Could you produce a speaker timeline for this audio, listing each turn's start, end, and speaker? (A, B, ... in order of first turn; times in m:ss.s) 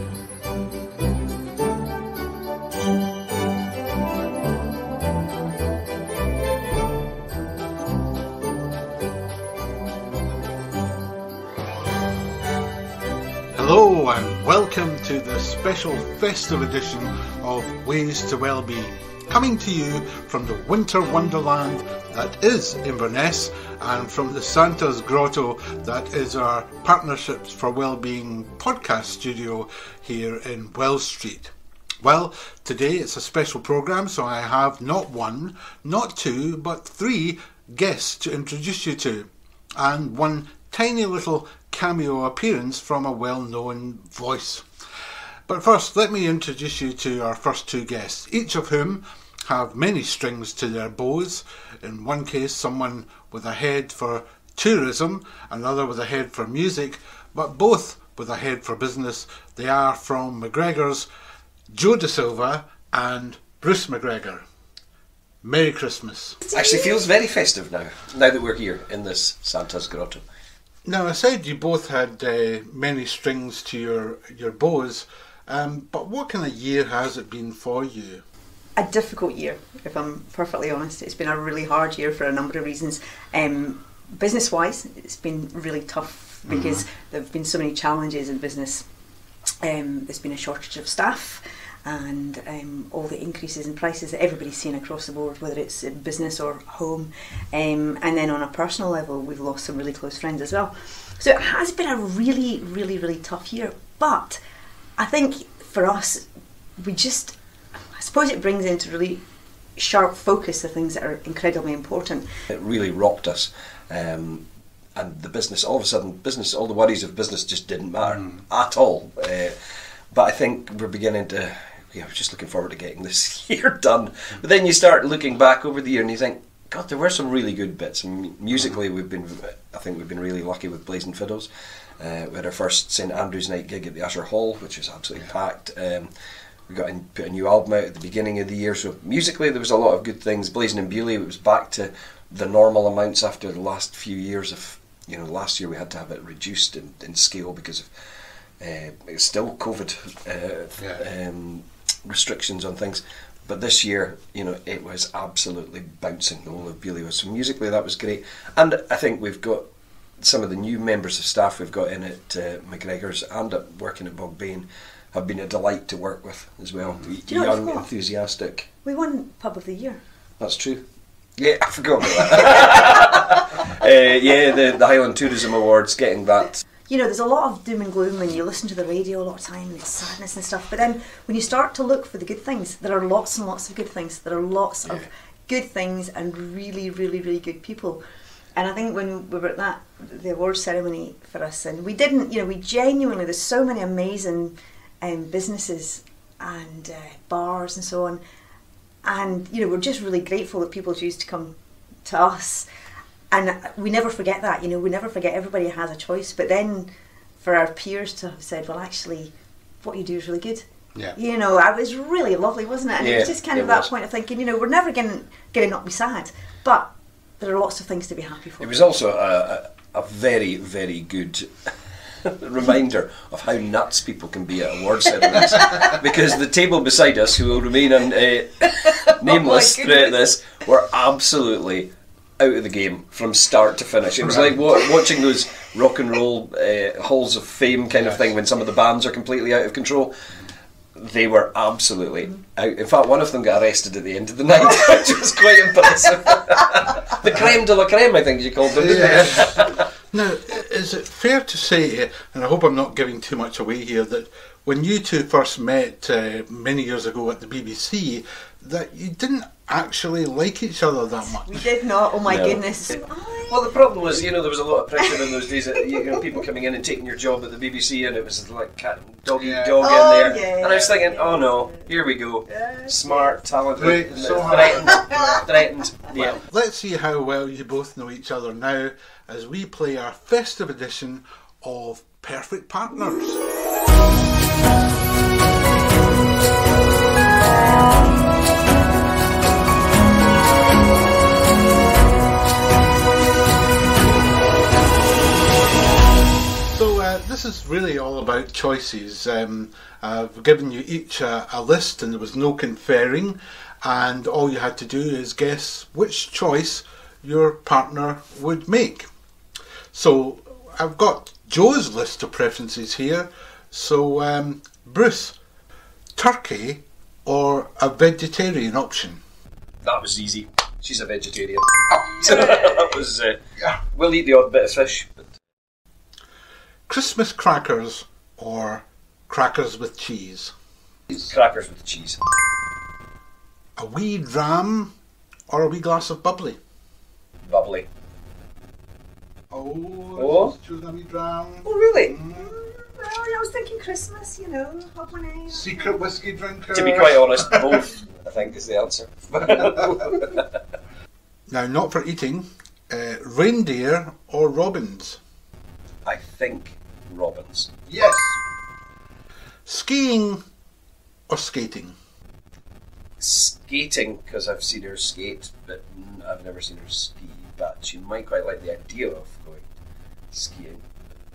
0:13.6-0:44.7 A
0:45.5-1:01.1 A
1:01.7-1:04.4 A
1:05.4-1:06.4 A
1:06.5-1:06.8 B
1:06.5-1:10.2 C
1:10.8-1:18.2 A
1:18.8-1:28.9 B
1:26.5-1:26.8 A
1:29.6-1:44.4 B
1:45.0-1:46.3 B
1:46.8-1:47.4 B
1:47.9-1:49.2 B
1:49.8-1:52.3 B
1:52.5-1:59.6 C
2:00.1-2:16.1 C
2:16.7-2:27.9 C
2:28.6-2:39.7 C
2:40.2-2:48.7 C
2:47.3-2:47.9 B
2:48.8-2:50.0 B
2:50.4-2:50.8 C
2:51.4-2:56.6 C
2:56.9-3:08.0 B
3:08.6-3:18.2 B
3:19.0-3:22.7 B
3:23.3-3:38.9 B
3:33.0-3:33.9 C
3:38.6-4:00.2 C
3:45.5-3:45.9 B
3:48.8-3:50.4 B
3:54.2-3:54.6 A
4:01.0-4:09.8 C
4:08.7-4:21.6 A
4:21.4-4:24.1 B
4:22.2-4:36.4 C
4:25.0-4:26.4 B
4:29.3-4:30.3 A
4:29.8-4:31.9 B
4:32.5-4:33.4 B
4:33.8-4:35.1 A
4:34.5-4:35.4 B
4:36.1-4:36.3 B
4:36.4-4:43.4 A
4:56.7-5:09.1 A
5:09.9-5:15.4 A
5:16.2-5:19.2 A
5:19.8-5:23.4 C
5:21.9-5:22.7 A
5:23.9-5:25.3 C
5:26.9-5:30.5 A
5:31.1-5:32.2 C
5:33.8-5:34.9 A
5:35.5-5:36.6 A
5:37.5-5:37.9 C
5:39.5-5:42.5 A
5:40.2-5:40.5 C
5:41.6-5:42.2 C
5:42.4-5:46.0 B
5:45.5-5:47.8 A
5:46.7-5:50.6 C
5:51.5-5:55.2 A
5:56.0-5:57.7 C
5:57.9-5:58.4 A
5:59.7-6:00.4 A
6:01.3-6:02.0 A
6:03.2-6:09.7 C
6:10.3-6:10.8 C